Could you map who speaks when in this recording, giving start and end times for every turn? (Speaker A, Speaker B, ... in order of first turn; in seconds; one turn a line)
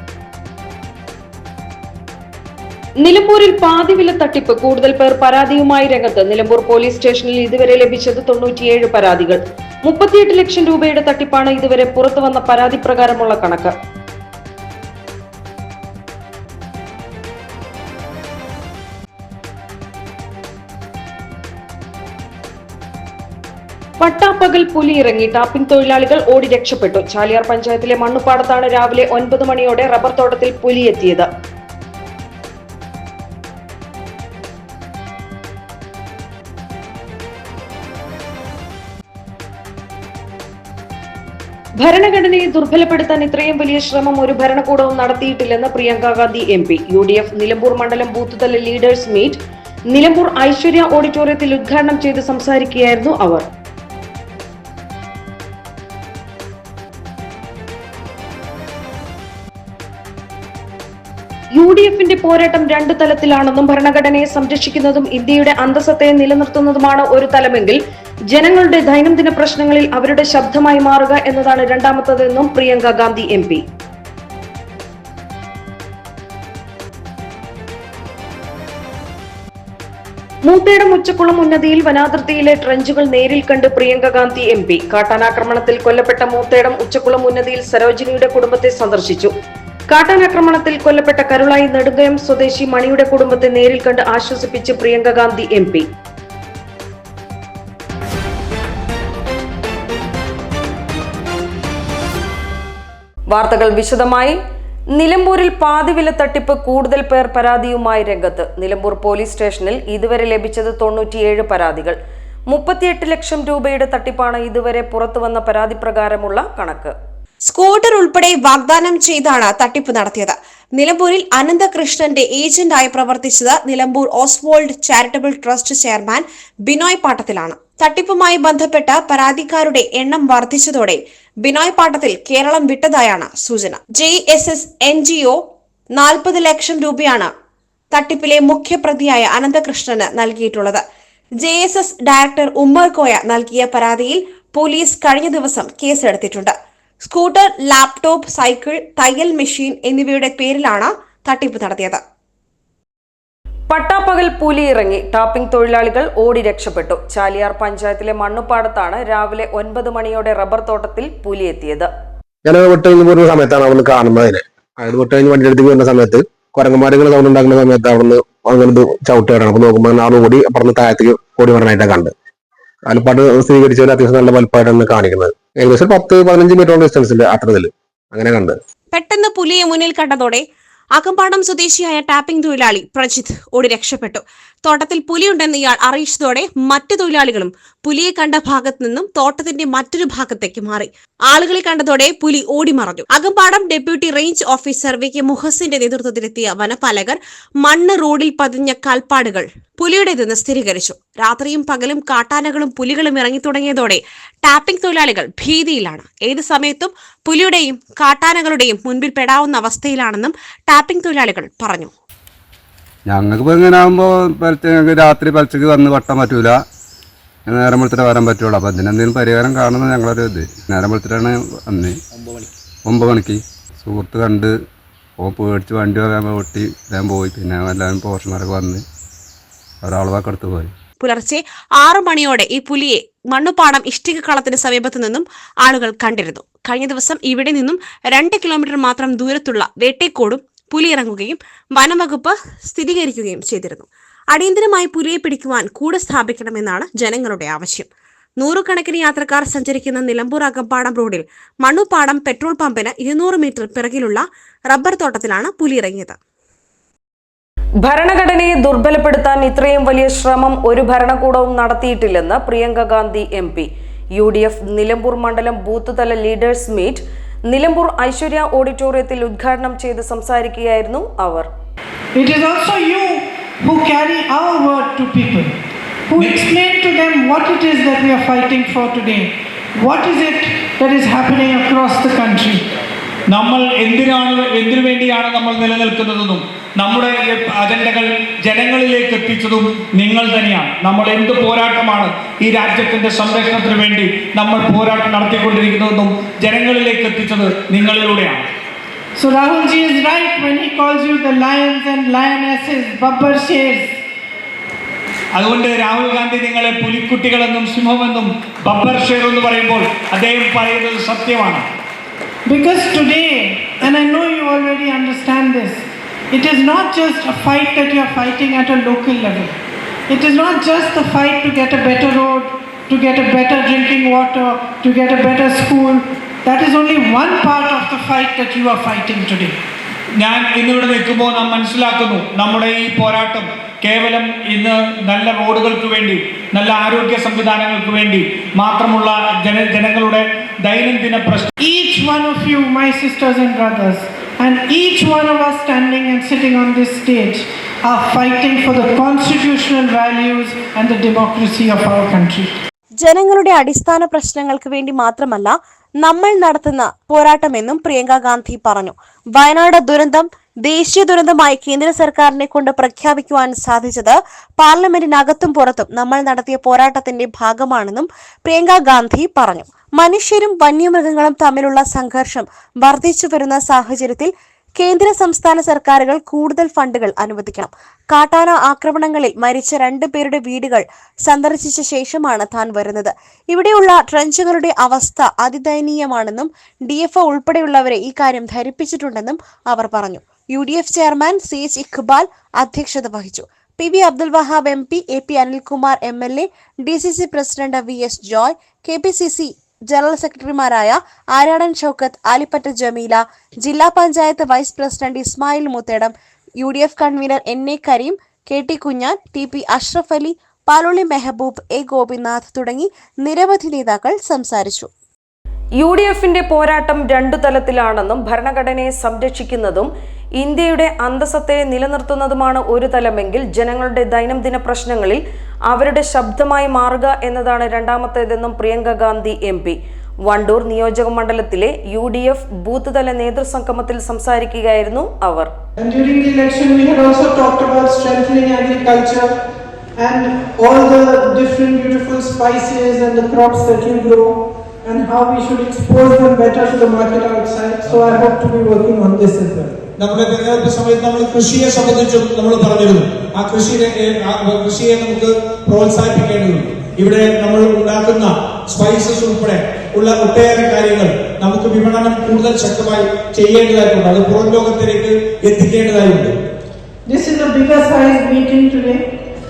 Speaker A: 3.0-13.7
Speaker A: 24.0-31.3
Speaker A: 41.8-49.4
Speaker A: 49.9-53.4
Speaker A: 61.6-67.8
Speaker A: 68.3-73.6
Speaker A: 80.5-89.3
Speaker A: 89.9-95.8
Speaker A: 103.3-104.4
Speaker A: 104.9-112.0
Speaker A: 112.5-116.9
Speaker B: 117.5-135.4
Speaker B: 136.0-137.3
Speaker B: 137.9-140.8
Speaker B: 141.4-152.0
Speaker A: 153.7-161.9
Speaker C: 162.4-172.1
Speaker C: 172.8-178.6
Speaker B: 178.9-211.9
Speaker D: 213.1-216.6
Speaker D: 217.5-222.0
Speaker D: 222.8-224.5
Speaker D: 225.2-228.8
Speaker D: 229.8-230.7
Speaker B: 231.0-256.2
Speaker A: 257.8-271.5
Speaker E: 272.1-275.5
Speaker E: 276.1-282.6
Speaker F: 283.3-287.9
Speaker F: 288.5-298.3
Speaker E: 299.1-303.9
Speaker F: 305.4-308.0
Speaker F: 308.7-309.7
Speaker F: 310.2-311.5
Speaker E: 312.4-319.5
Speaker E: 320.1-329.6
Speaker F: 330.3-333.4
Speaker F: 333.9-336.1
Speaker F: 336.6-340.2
Speaker F: 340.7-341.3
Speaker E: 341.6-352.5
Speaker B: 353.0-414.9
Speaker A: 415.8-429.8
Speaker A: 430.3-435.5
Speaker E: 435.8-439.4
Speaker E: 440.0-449.8
Speaker G: 450.0-466.3
Speaker E: 467.1-469.0